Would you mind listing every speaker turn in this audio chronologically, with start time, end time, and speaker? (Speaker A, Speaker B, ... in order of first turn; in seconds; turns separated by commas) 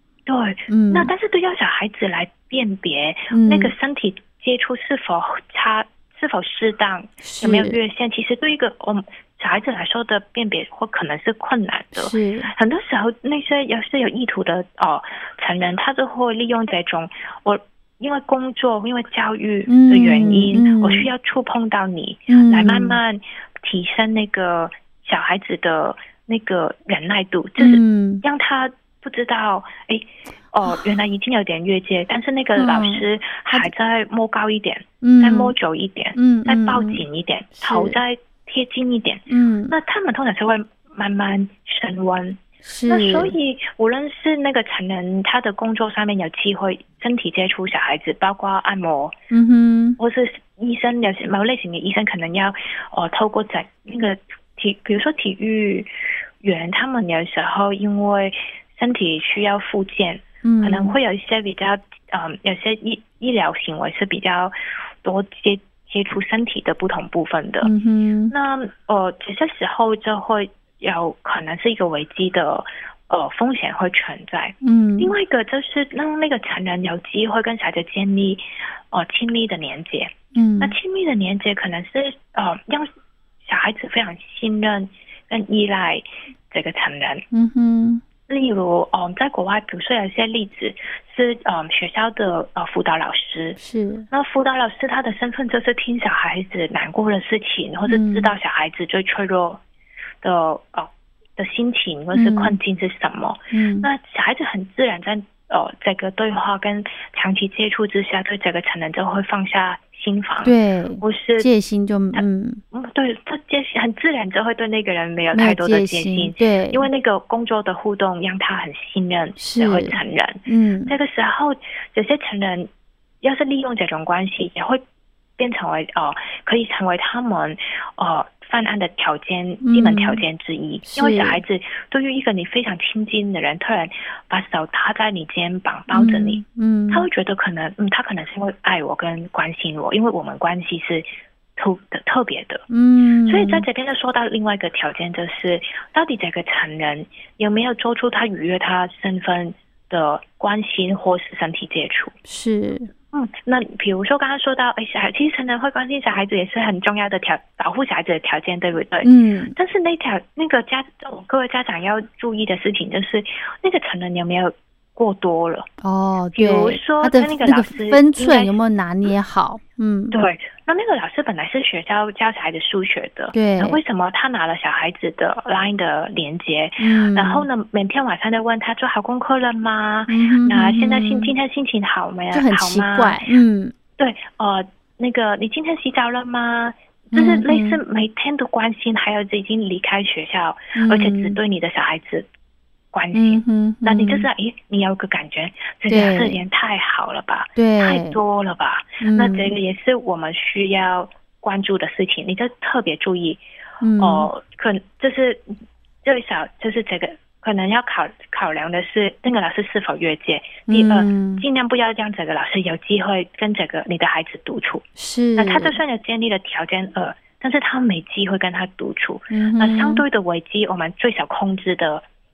Speaker A: 0.3-49.1, Speaker B: 0.7-1.1, Speaker B: 3.3-3.7, Speaker B: 7.2-7.8, Speaker B: 11.9-12.5, Speaker B: 19.7-21.1, Speaker B: 22.3-23.0, Speaker B: 27.6-28.2, Speaker B: 32.5-33.7, Speaker B: 35.0-35.5, Speaker B: 36.1-37.0, Speaker B: 37.6-38.0, Speaker B: 39.3-39.7, Speaker B: 42.6-43.3, Speaker B: 49.3-50.0, Speaker A: 50.0-55.9, Speaker A: 56.4-67.7, Speaker B: 60.4-61.0, Speaker B: 67.6-68.3, Speaker A: 68.3-82.9, Speaker B: 74.6-75.1, Speaker B: 80.3-80.8, Speaker A: 83.4-87.2, Speaker B: 87.3-88.0, Speaker A: 88.3-93.6, Speaker B: 93.6-94.1, Speaker A: 94.1-99.6, Speaker B: 97.9-98.3, Speaker A: 100.2-111.5, Speaker B: 102.1-102.6, Speaker B: 103.5-103.9, Speaker B: 110.4-112.6, Speaker A: 112.1-122.7, Speaker B: 115.3-116.8, Speaker B: 119.4-120.9, Speaker A: 123.2-124.8, Speaker A: 125.4-142.6, Speaker B: 129.6-130.2, Speaker B: 130.8-131.4, Speaker B: 135.9-137.1, Speaker B: 142.7-143.7, Speaker A: 143.2-152.1, Speaker B: 152.2-152.9, Speaker A: 153.1-165.7, Speaker B: 159.0-159.5, Speaker B: 165.8-170.2, Speaker A: 166.3-168.5, Speaker A: 170.1-183.2, Speaker B: 173.3-173.8, Speaker B: 176.8-177.5, Speaker B: 180.1-181.3, Speaker B: 182.3-183.7, Speaker A: 184.0-192.3, Speaker B: 187.1-187.8, Speaker B: 190.7-191.4, Speaker A: 192.9-203.4, Speaker B: 193.1-194.3, Speaker B: 195.9-196.4, Speaker B: 197.6-198.2, Speaker B: 199.0-199.5, Speaker B: 203.8-204.3, Speaker A: 204.0-214.8, Speaker B: 210.7-211.4, Speaker B: 215.0-215.8, Speaker A: 215.4-222.0, Speaker B: 219.3-220.0